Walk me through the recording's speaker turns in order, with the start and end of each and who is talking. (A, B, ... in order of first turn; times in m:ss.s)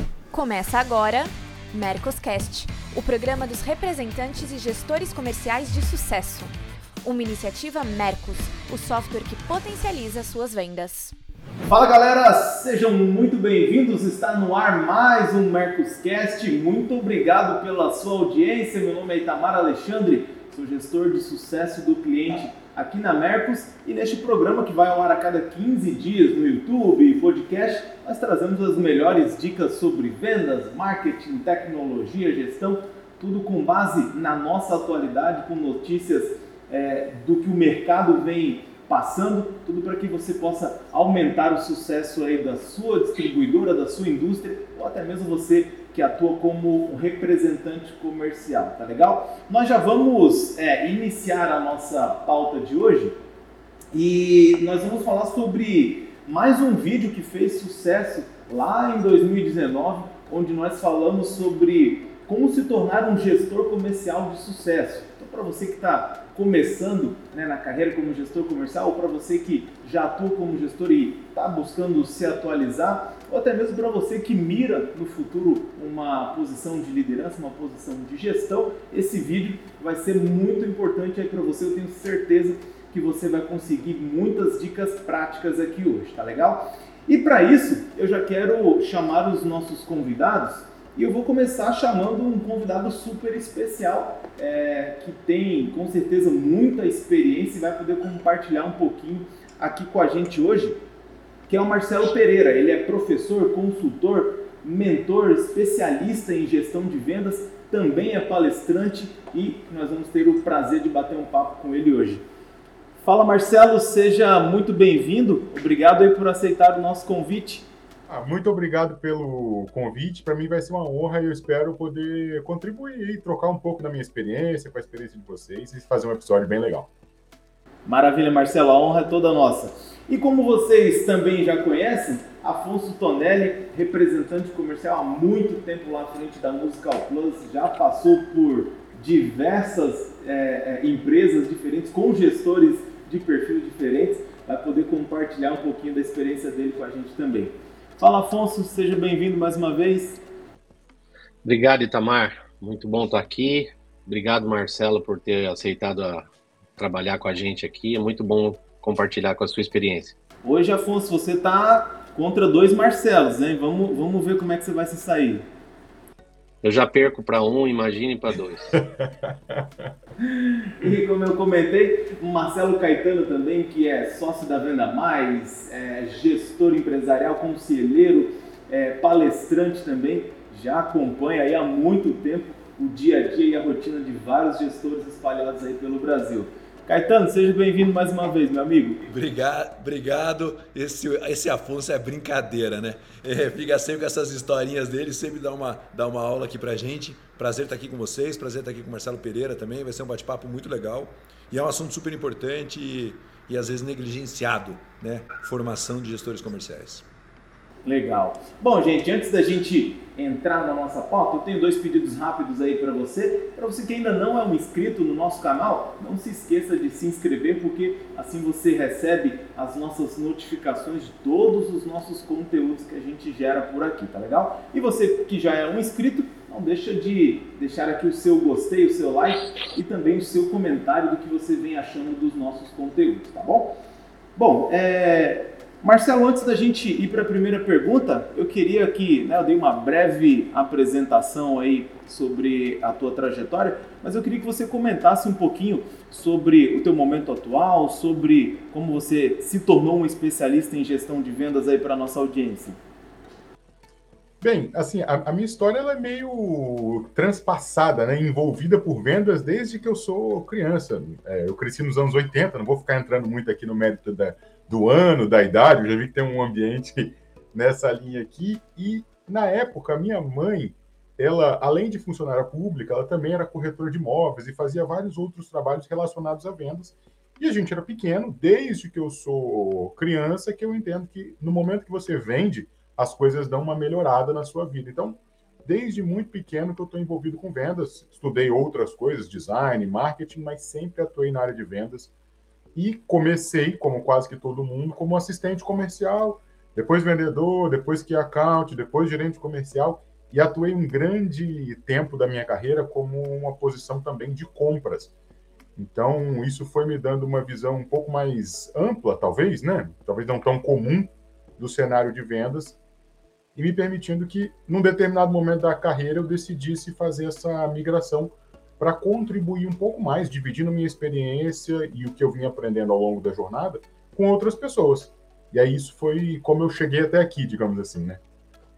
0:00.3-0:11.2 A
0:11.7-0:53.2 B
0:53.9-1:40.8 B
1:41.5-1:52.2 B
1:53.0-1:57.7 B
1:58.1-2:06.9 C
2:07.9-2:30.2 B
2:31.4-2:36.3 D
2:36.8-2:40.2 D
2:40.4-2:45.5 B
2:46.6-2:48.8 D
2:49.0-2:49.8 C
2:50.2-3:09.0 B
3:09.1-3:27.1 E
3:27.8-3:53.8 B
3:54.4-4:12.8 B
4:14.4-4:52.1 C
4:52.8-5:05.1 C
5:05.8-5:12.8 C
5:13.6-5:28.2 C